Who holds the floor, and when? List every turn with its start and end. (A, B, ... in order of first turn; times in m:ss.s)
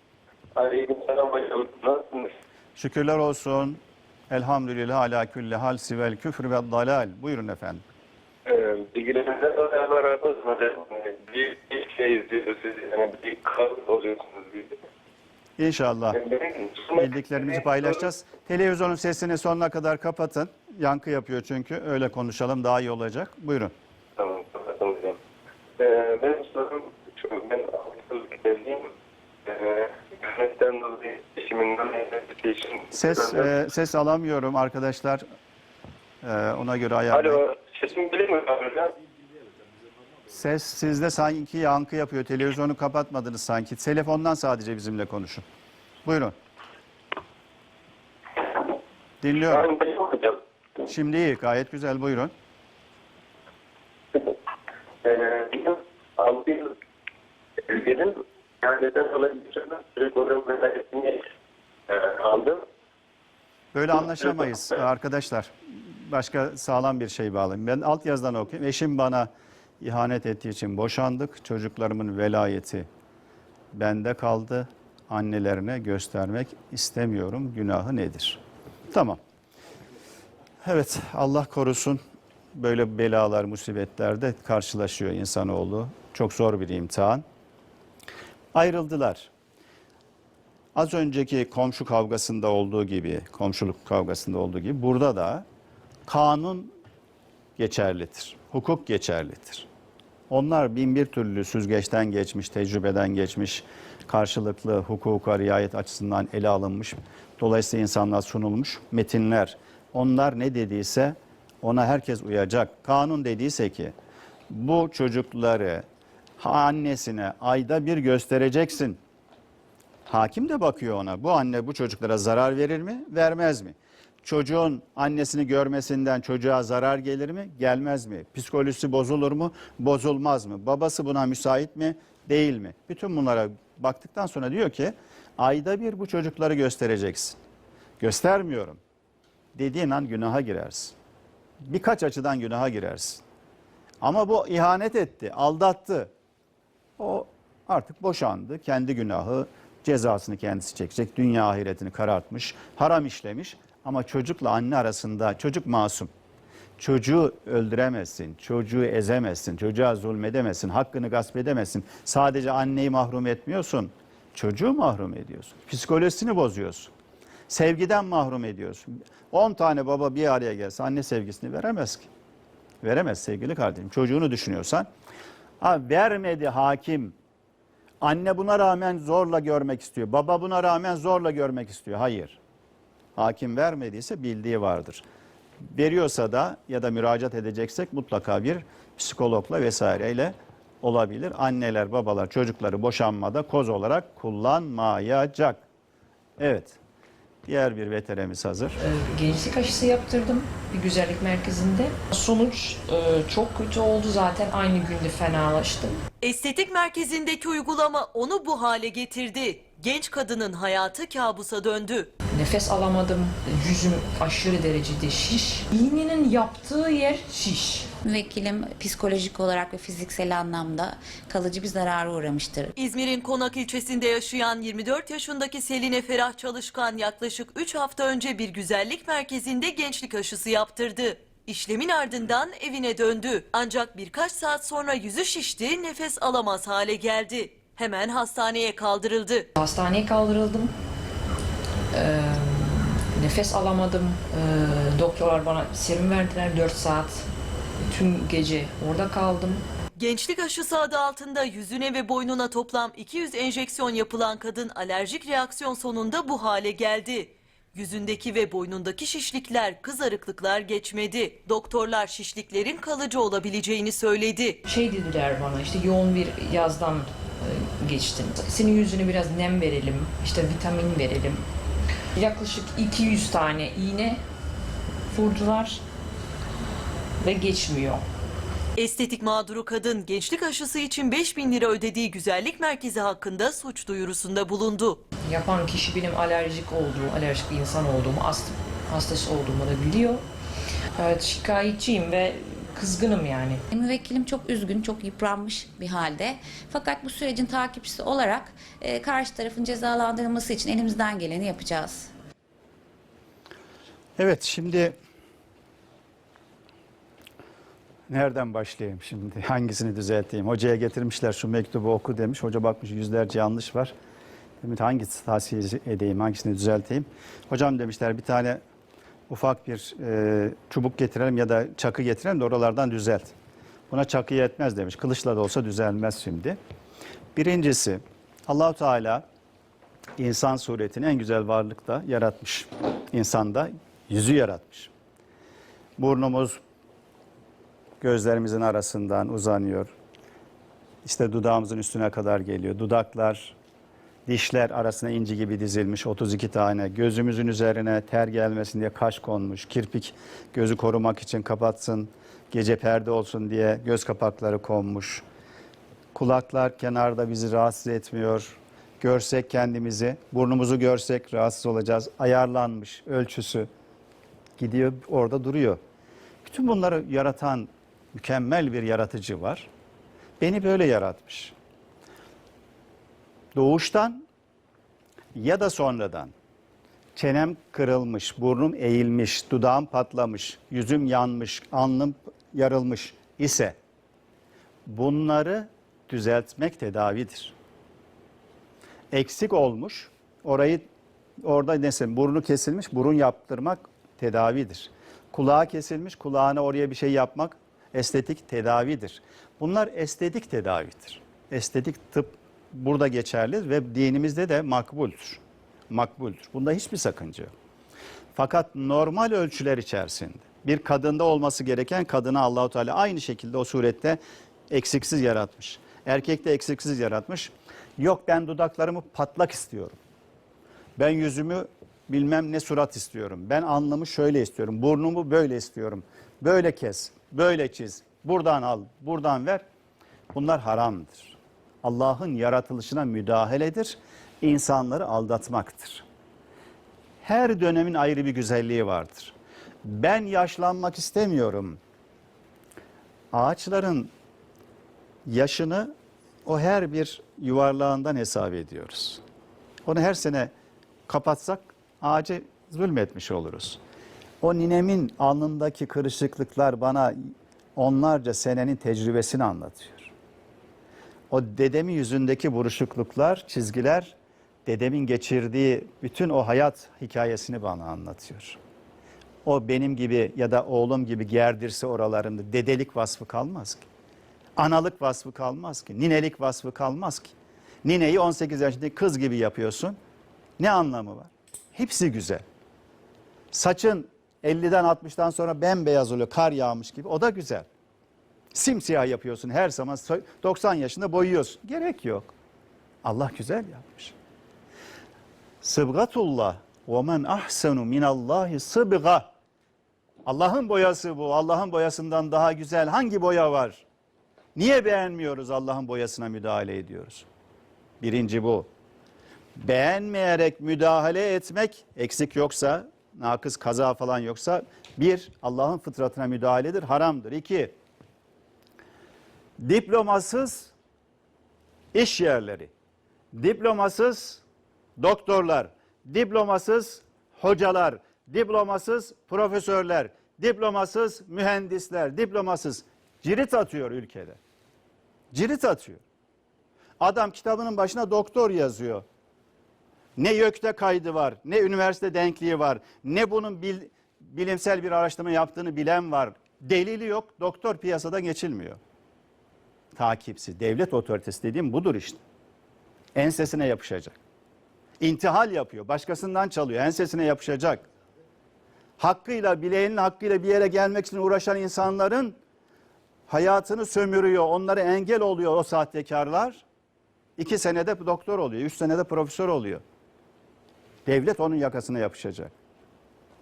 0:00.6-0:02.3 A
0:02.8-0:07.8 B
0:08.5-0:14.7 A
0:15.6-0:16.2 B
0:16.2-0:17.0 A
0:17.0-0:23.7 B
0:24.2-0:25.2 A
0:25.8-0:28.9 A
0:29.5-0:33.5 A
0:32.9-0:35.2 B
0:36.2-0:37.4 B
0:37.1-0:38.9 A
0:40.3-0:45.4 B
0:46.0-0:46.4 B
0:49.2-0:49.7 B
0:49.5-0:50.4 A
0:50.9-0:52.3 B
0:55.0-0:56.7 A
0:57.7-1:01.2 A
1:01.9-1:02.6 A
1:03.7-1:09.3 B
1:09.8-1:12.9 B
1:13.7-1:18.4 B
1:18.9-1:19.2 B
1:20.6-1:22.0 B
1:22.5-1:27.2 B
1:28.5-1:29.3 B
1:30.8-1:35.4 B
1:36.1-1:36.7 B
1:37.6-1:39.7 B
1:40.3-1:53.9 B
1:54.5-1:55.8 B
1:56.4-1:59.0 B
2:00.1-2:17.4 B
2:18.0-2:18.8 B
2:19.6-2:21.0 B
2:21.6-2:23.2 B
2:24.0-2:26.1 B
2:27.0-2:36.1 B
2:36.8-2:46.9 B
2:47.5-2:52.1 B
2:52.8-2:54.9 B
2:55.6-2:57.1 B
2:58.0-3:02.4 B
3:03.2-3:05.0 B
3:05.6-3:15.6 B
3:16.4-3:16.8 B
3:17.5-3:18.8 B
3:18.8-3:26.0 C
3:26.2-3:32.1 D
3:32.3-3:37.9 C
3:38.0-3:42.7 E
3:42.8-3:59.5 D
3:59.6-4:00.7 C
4:01.9-4:07.3 C
4:07.9-4:09.6 C
4:10.0-4:24.6 D
4:24.6-4:31.4 C
4:32.2-4:34.2 C
4:35.1-4:35.8 C
4:37.2-4:38.0 C
4:38.8-4:45.0 D
4:45.3-4:50.2 C
4:51.0-4:53.6 C
4:53.7-5:02.1 E
5:04.2-5:05.0 B
5:08.1-5:13.9 B
5:14.6-5:18.6 B
5:19.3-5:23.3 B
5:23.9-5:26.6 B
5:27.4-5:29.2 B
5:30.2-5:34.9 B
5:36.0-5:36.6 B
5:38.0-5:39.9 B
5:41.0-5:43.6 B
5:44.3-5:55.2 B
5:56.1-6:03.7 B
6:04.6-6:05.8 B
6:06.4-6:09.7 B
6:10.4-6:11.5 B
6:13.6-6:14.2 B
6:15.3-6:16.3 B
6:17.2-6:23.8 B
6:24.9-6:27.5 B
6:29.1-6:30.8 B
6:31.4-6:47.5 B
6:48.4-6:54.2 B
6:54.7-7:00.0 B
7:01.0-7:09.6 B
7:10.3-7:16.0 B
7:17.2-7:21.8 B
7:23.3-7:24.1 B
7:25.3-7:25.9 B
7:26.5-7:29.2 B
7:29.9-7:30.5 B
7:31.1-7:33.8 B
7:34.4-7:37.2 B
7:37.8-7:40.1 B
7:41.3-7:44.2 B
7:44.7-7:48.6 B
7:49.4-7:53.8 B
7:54.6-7:57.3 B
7:57.8-8:00.0 B
8:00.6-8:02.4 B
8:03.5-8:07.7 B
8:08.5-8:12.3 B
8:13.0-8:14.1 B
8:15.6-8:19.3 B
8:20.3-8:23.8 B
8:24.6-8:27.3 B
8:28.0-8:28.7 B
8:29.6-8:37.7 B
8:39.6-8:40.7 B
8:41.9-8:42.7 B
8:43.3-8:44.4 B
8:45.0-8:54.4 B
8:55.3-8:56.0 B
8:57.0-8:59.0 B
9:00.2-9:08.8 B
9:10.0-9:12.2 B
9:13.2-9:14.2 B
9:15.0-9:17.9 B
9:19.0-9:22.4 B
9:23.3-9:26.6 B
9:27.4-9:29.8 B
9:31.1-9:32.5 B